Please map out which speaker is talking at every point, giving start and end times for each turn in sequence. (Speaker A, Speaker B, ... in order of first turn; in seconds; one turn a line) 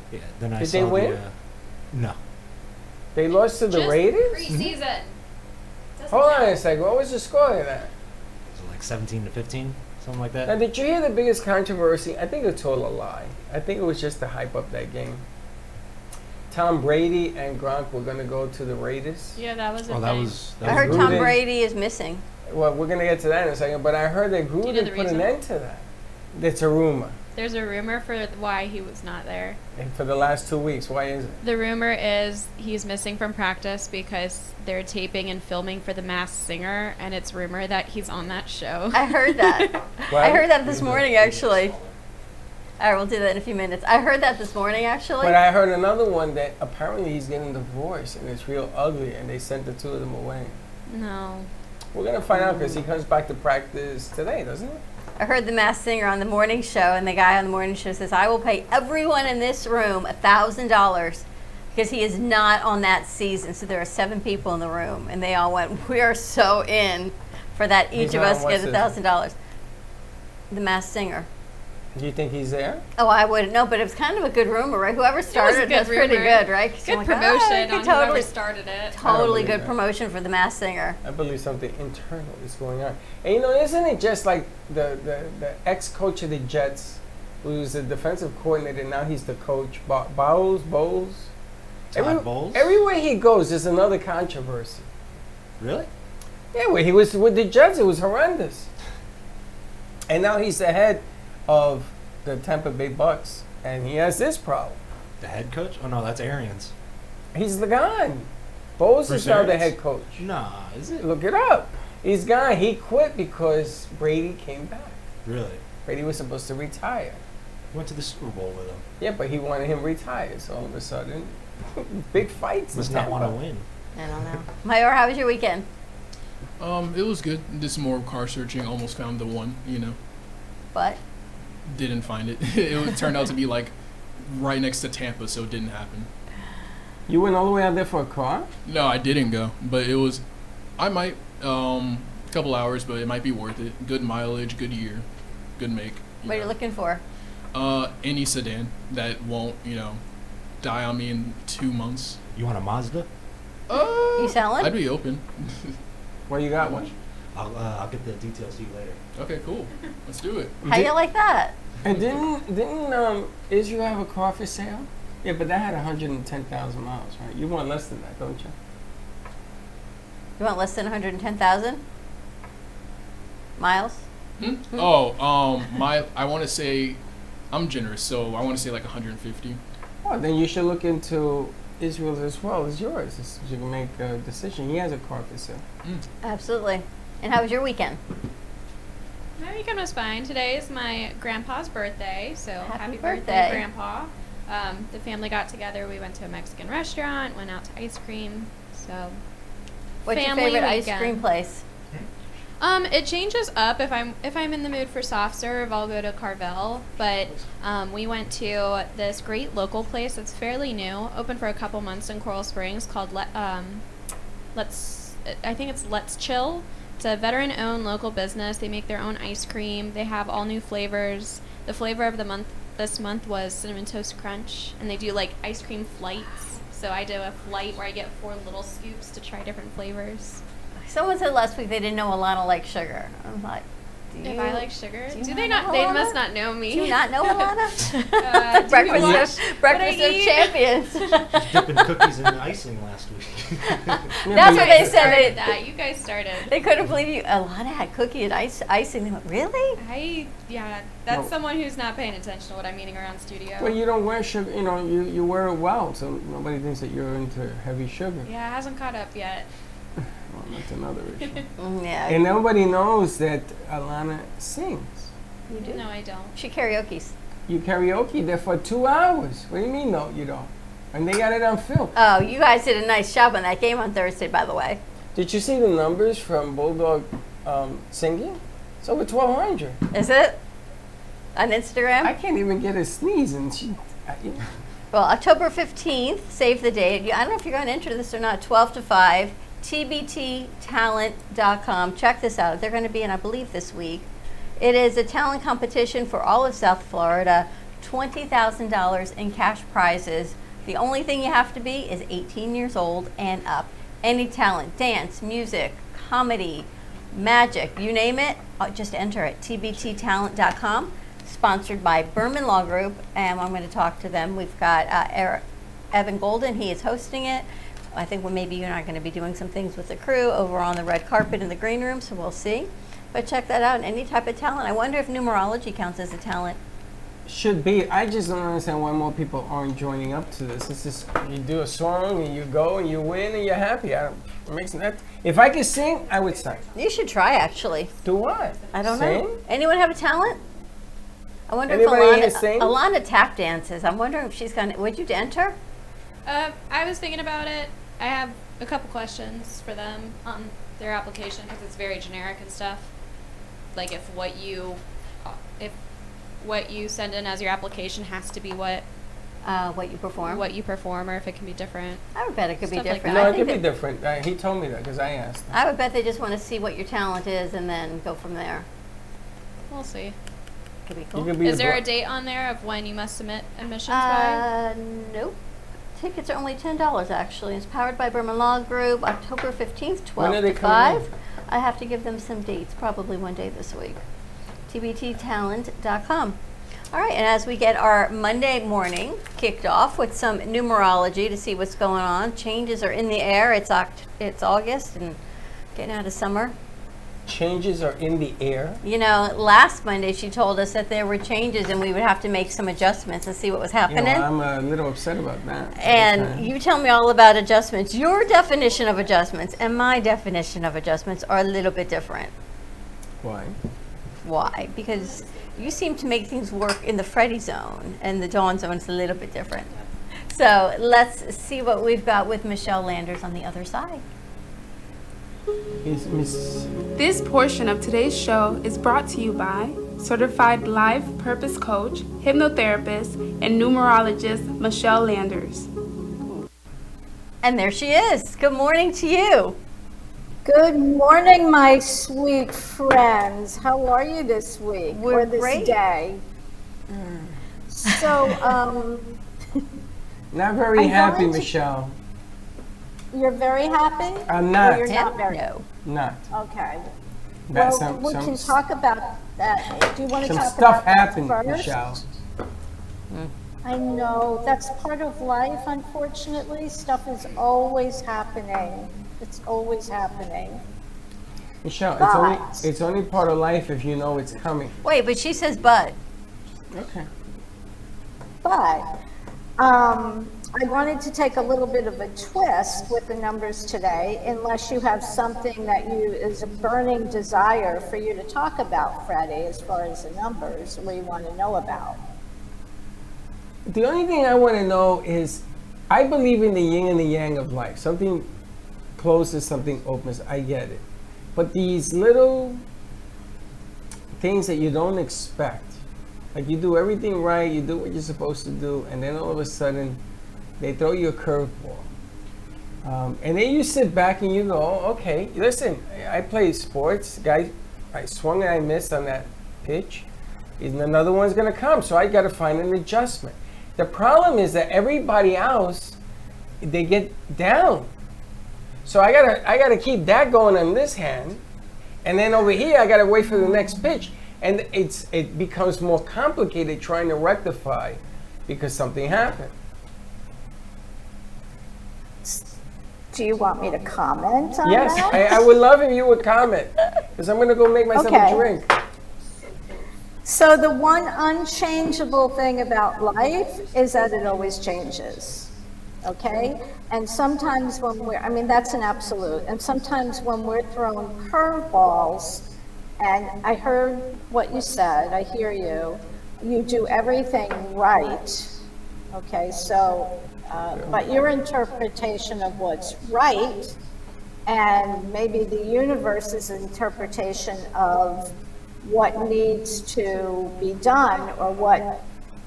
Speaker A: 0.1-1.3
Speaker B: 0.6-1.2
Speaker A: 1.9-2.2
Speaker B: 3.1-4.5
Speaker C: 3.7-5.2
Speaker A: 4.5-4.7
Speaker C: 6.0-6.6
Speaker B: 6.1-7.9
Speaker A: 8.5-10.5
Speaker B: 10.4-15.2
Speaker B: 16.5-19.3
Speaker C: 19.4-20.5
Speaker A: 19.8-21.4
Speaker D: 20.6-22.2
Speaker B: 20.6-21.4
Speaker B: 22.5-27.1
Speaker C: 24.6-25.3
Speaker C: 27.4-29.6
Speaker B: 29.8-31.4
Speaker C: 31.4-39.9
Speaker D: 38.9-41.7
Speaker B: 40.1-40.5
Speaker A: 40.3-42.0
Speaker D: 42.8-45.4
Speaker B: 45.2-50.6
Speaker C: 50.9-51.5
Speaker B: 51.9-54.8
Speaker D: 55.2-69.3
Speaker B: 67.9-68.9
Speaker D: 70.5-71.3
Speaker B: 71.9-72.8
Speaker D: 73.0-78.3
Speaker C: 75.3-79.0
Speaker D: 78.9-81.0
Speaker B: 79.0-79.7
Speaker B: 81.0-91.3
Speaker B: 91.9-94.9
Speaker A: 91.9-92.7
Speaker A: 95.6-95.9
Speaker B: 96.5-98.7
Speaker B: 100.1-104.8
Speaker A: 105.2-106.7
Speaker B: 107.3-110.2
Speaker A: 109.0-111.0
Speaker B: 111.0-115.0
Speaker A: 115.2-115.6
Speaker B: 115.8-117.2
Speaker A: 117.7-118.8
Speaker B: 119.0-123.3
Speaker A: 122.7-123.6
Speaker D: 124.0-125.7
Speaker E: 126.6-130.0
Speaker D: 130.7-131.0
Speaker E: 131.7-136.1
Speaker B: 137.1-138.5
Speaker E: 138.7-140.2
Speaker E: 140.8-145.0
Speaker E: 145.6-146.5
Speaker D: 146.2-147.0
Speaker E: 147.5-150.0
Speaker E: 150.6-152.2
Speaker A: 152.3-153.1
Speaker E: 153.7-155.8
Speaker D: 154.2-154.7
Speaker B: 156.3-156.9
Speaker E: 156.6-156.9
Speaker A: 157.3-159.0
Speaker E: 159.2-160.6
Speaker B: 160.6-160.9
Speaker D: 160.7-161.6
Speaker B: 161.8-168.5
Speaker E: 161.8-162.1
Speaker D: 170.4-171.8
Speaker D: 173.6-174.0
Speaker E: 174.4-177.0
Speaker E: 177.5-179.6
Speaker B: 180.0-185.6
Speaker D: 186.2-188.0
Speaker C: 189.4-199.2
Speaker D: 192.6-193.7
Speaker D: 200.1-201.6
Speaker C: 200.1-201.2
Speaker C: 202.6-213.8
Speaker C: 214.5-230.4
Speaker D: 230.9-241.8
Speaker C: 234.2-241.2
Speaker A: 241.3-244.1
Speaker D: 244.1-245.6
Speaker B: 244.2-245.3
Speaker C: 244.3-246.5
Speaker D: 246.5-249.8
Speaker C: 249.8-253.7
Speaker B: 253.6-258.3
Speaker C: 258.2-259.5
Speaker B: 260.3-261.4
Speaker D: 261.6-262.2
Speaker B: 262.1-265.1
Speaker D: 265.5-265.8
Speaker C: 265.6-266.3
Speaker D: 266.3-267.1
Speaker B: 267.5-271.9
Speaker D: 271.9-274.8
Speaker B: 275.1-279.8
Speaker D: 279.9-280.4
Speaker D: 281.3-282.1
Speaker B: 282.0-284.4
Speaker D: 284.9-294.1
Speaker D: 294.6-326.6
Speaker B: 327.2-336.6
Speaker D: 336.8-337.9
Speaker B: 338.0-339.4
Speaker D: 338.7-340.4
Speaker D: 341.5-345.6
Speaker B: 341.7-342.8
Speaker C: 346.2-352.9
Speaker C: 353.7-355.8
Speaker C: 356.4-358.8
Speaker D: 359.4-360.4
Speaker C: 360.2-362.0
Speaker D: 362.1-363.6
Speaker C: 362.6-363.4
Speaker B: 363.0-365.5
Speaker D: 365.5-368.6
Speaker C: 369.7-370.1
Speaker D: 370.9-371.3
Speaker B: 371.1-371.8
Speaker C: 371.4-374.4
Speaker D: 373.9-375.4
Speaker D: 375.9-384.0
Speaker B: 380.2-381.1
Speaker D: 384.7-386.4
Speaker D: 386.9-395.2
Speaker D: 395.7-396.5
Speaker B: 397.2-398.8
Speaker D: 398.8-404.3
Speaker B: 403.9-406.5
Speaker D: 405.8-412.3
Speaker B: 413.2-413.6
Speaker D: 414.2-419.7
Speaker C: 415.0-415.6
Speaker D: 420.3-424.0
Speaker B: 425.8-426.7
Speaker F: 426.9-435.7
Speaker D: 437.4-439.6
Speaker G: 440.4-446.2
Speaker D: 444.9-445.8
Speaker G: 447.7-449.2
Speaker D: 447.9-448.4
Speaker B: 450.3-451.9
Speaker G: 450.8-451.5
Speaker G: 453.1-455.4
Speaker B: 454.3-454.9
Speaker D: 454.9-455.6
Speaker B: 455.8-456.2
Speaker G: 456.3-456.9
Speaker B: 457.5-458.5
Speaker G: 457.5-461.9
Speaker B: 460.2-462.0
Speaker G: 463.6-470.6
Speaker B: 471.6-474.8
Speaker G: 472.0-472.6
Speaker D: 474.8-475.9
Speaker B: 476.7-477.1
Speaker G: 478.4-478.9
Speaker G: 479.6-492.0
Speaker B: 493.6-498.3
Speaker B: 498.9-500.8
Speaker B: 501.3-502.6
Speaker B: 504.1-505.8
Speaker B: 506.3-510.0
Speaker B: 510.6-511.9
Speaker B: 512.8-520.1
Speaker B: 520.6-526.0
Speaker B: 526.6-527.9
Speaker B: 528.8-531.4
Speaker B: 532.0-539.5
Speaker G: 543.1-545.4
Speaker B: 544.6-548.7
Speaker G: 547.9-548.4
Speaker G: 550.2-555.5
Speaker G: 556.0-562.5
Speaker G: 563.0-568.5
Speaker G: 569.1-573.7
Speaker B: 570.7-571.0
Speaker G: 574.5-578.3
Speaker G: 578.8-582.0